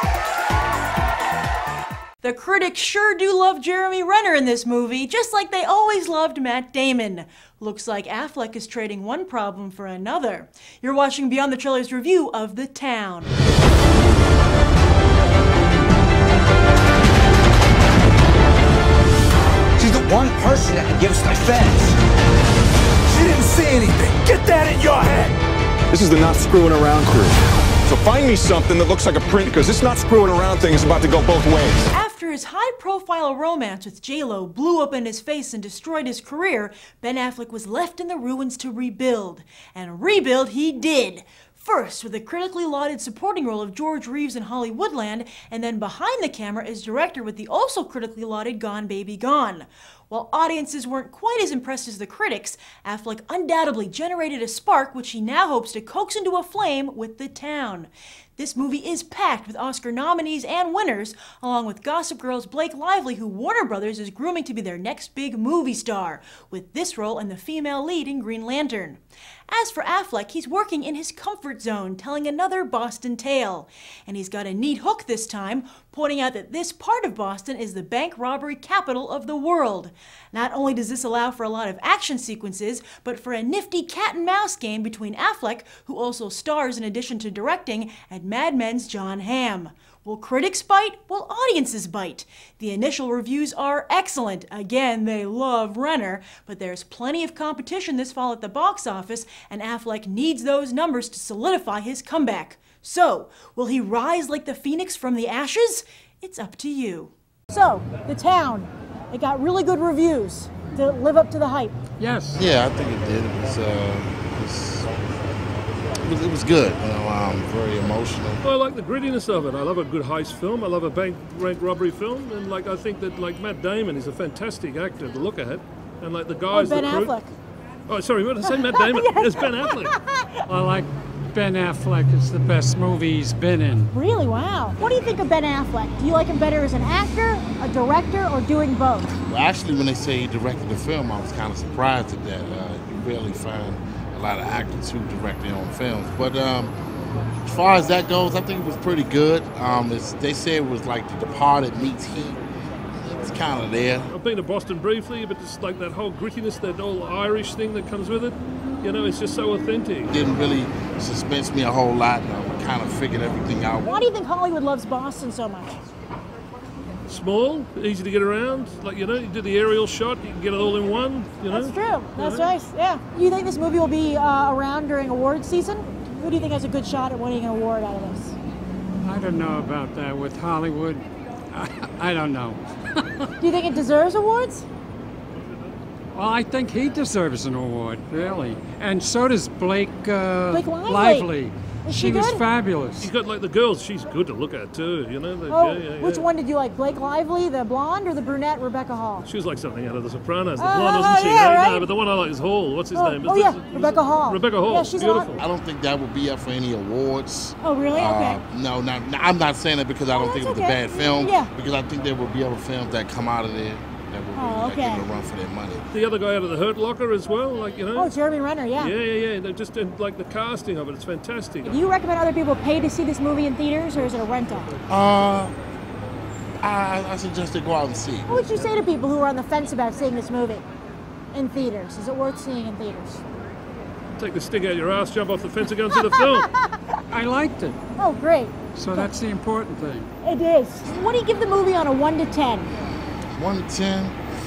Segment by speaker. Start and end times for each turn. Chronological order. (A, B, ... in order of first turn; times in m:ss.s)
0:02.2-0:13.3 A
0:19.8-0:22.0 B
0:23.2-0:25.3 C
0:25.9-0:31.8 D
0:31.9-1:51.8 A
1:52.0-1:52.4 E
1:52.4-1:54.9 F
1:56.0-1:58.4 F
1:58.4-2:07.1 G
2:06.5-2:07.3 A
2:07.9-2:09.9 G
2:08.4-2:10.4 A
2:10.5-2:13.9 E
2:13.9-2:19.1 A
2:19.2-2:26.7 F
2:27.4-2:32.4 F
2:33.0-2:34.1 F
2:34.1-2:40.1 G
2:40.1-2:44.1 F
2:43.8-2:45.8 A
2:47.1-2:52.5 G
2:51.5-2:58.3 A
2:59.0-3:03.3 E
3:03.4-3:04.7 A
3:06.2-3:13.1 E
3:10.5-3:11.3 A
3:11.8-3:12.4 A
3:13.0-3:16.3 G
3:15.5-3:19.3 A
3:19.2-3:25.4 G
3:20.6-3:21.9 A
3:22.9-3:25.4 A
3:25.4-3:35.8 F
3:27.6-3:28.4 A
3:30.1-3:31.5 A
3:34.3-3:35.1 A
3:35.9-3:38.1 G
3:37.9-3:38.9 A
3:38.8-3:41.8 G
3:41.6-3:44.7 A
3:44.9-3:45.5 F
3:46.6-3:48.5 F
3:48.3-3:50.6 A
3:51.3-3:53.2 A
3:54.2-3:56.5 G
3:56.0-3:56.8 A
3:57.1-3:57.8 E
3:58.0-3:59.1 A
3:58.7-4:00.1 E
4:00.2-4:02.7 A
4:03.4-4:04.2 F